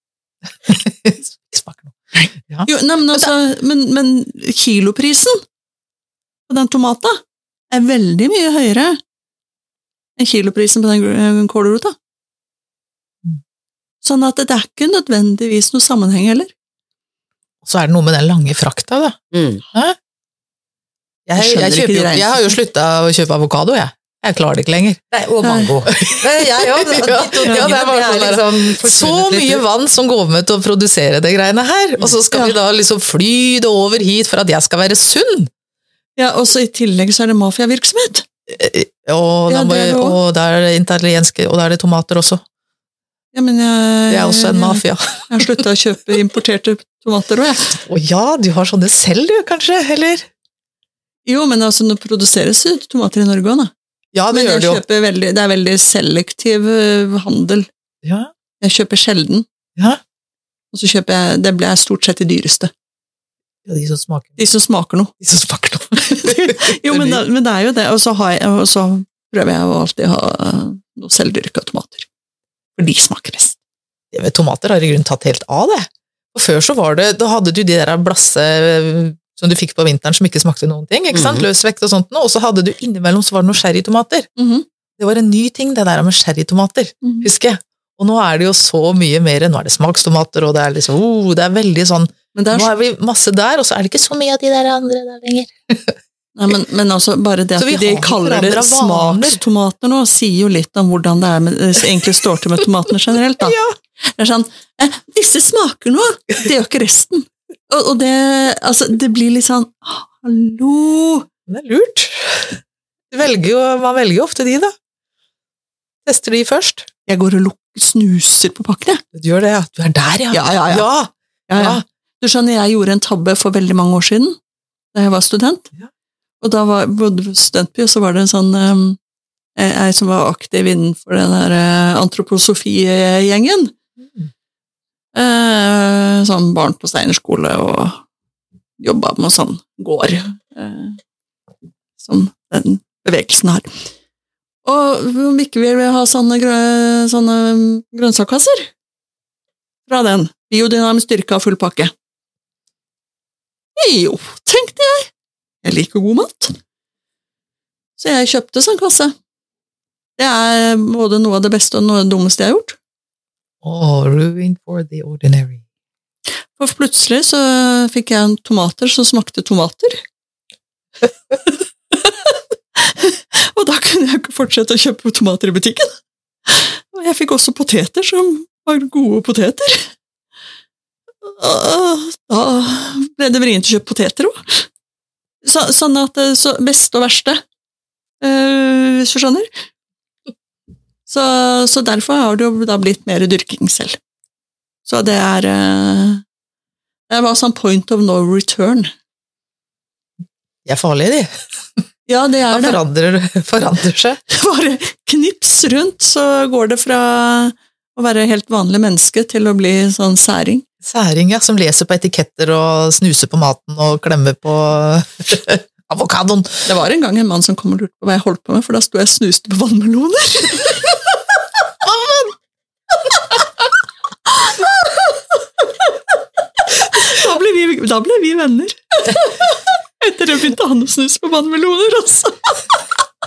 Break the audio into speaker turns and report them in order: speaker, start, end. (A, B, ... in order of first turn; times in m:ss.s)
0:00.7-0:03.3 A
0:02.7-0:05.4 B
0:06.5-0:09.0 B
0:10.2-0:12.0 B
0:14.0-0:16.5 B
0:17.6-0:19.2 A
0:19.3-0:19.6 C
0:21.3-0:25.0 A
0:21.4-0:22.5 B
0:25.1-0:29.6 C
0:25.4-0:25.8 B
0:25.9-0:35.5 A
0:27.4-0:27.7 B
0:36.2-0:38.3 B
0:38.5-0:42.4 A
0:39.5-0:40.2 B
0:43.3-0:47.8 B
0:44.1-0:45.6 A
0:47.9-0:50.3 A
0:51.3-0:53.7 B
0:54.1-0:54.8 A
0:54.3-0:57.7 B
0:58.0-0:58.3 A
0:58.6-0:59.5 B
1:00.7-1:02.7 B
1:03.7-1:04.4 A
1:04.4-1:05.1 B
1:05.2-1:07.2 A
1:06.0-1:12.1 B
1:12.8-1:13.6 B
1:14.1-1:24.3 A
1:21.1-1:21.4 C
1:24.4-1:24.7 B
1:25.0-1:36.0 A
1:27.0-1:27.3 B
1:32.3-1:32.7 B
1:36.4-1:51.3 B
1:37.6-1:39.4 A
1:43.4-1:43.8 A
1:51.5-1:52.6 A
1:53.1-1:54.7 A
1:56.1-1:56.9 A
1:57.1-1:59.0 B
1:59.2-2:01.8 A
2:00.3-2:00.9 B
2:01.5-2:04.4 B
2:04.9-2:05.7 B
2:06.4-2:09.0 B
2:09.6-2:13.8 B
2:14.0-2:14.3 A
2:15.1-2:18.0 B
2:18.8-2:21.0 B
2:22.0-2:23.7 B
2:24.6-2:28.7 B
2:29.9-2:31.9 B
2:33.8-2:35.1 B
2:35.6-2:36.6 B
2:38.0-2:39.2 B
2:40.2-2:42.8 B
2:43.6-2:45.6 A
2:46.6-2:50.0 B
2:51.9-2:55.9 B
2:56.5-2:59.9 B
3:01.2-3:04.7 B
3:05.4-3:07.4 B
3:08.2-3:09.5 B
3:11.1-3:14.0 B
3:14.8-3:16.2 B
3:17.1-3:18.9 B
3:20.7-3:21.3 A
3:22.1-3:22.8 B
3:22.5-3:24.2 A
3:24.3-3:30.6 B
3:30.8-3:36.6 A
3:36.6-3:41.0 B
3:41.9-3:42.3 B
3:44.3-3:52.6 B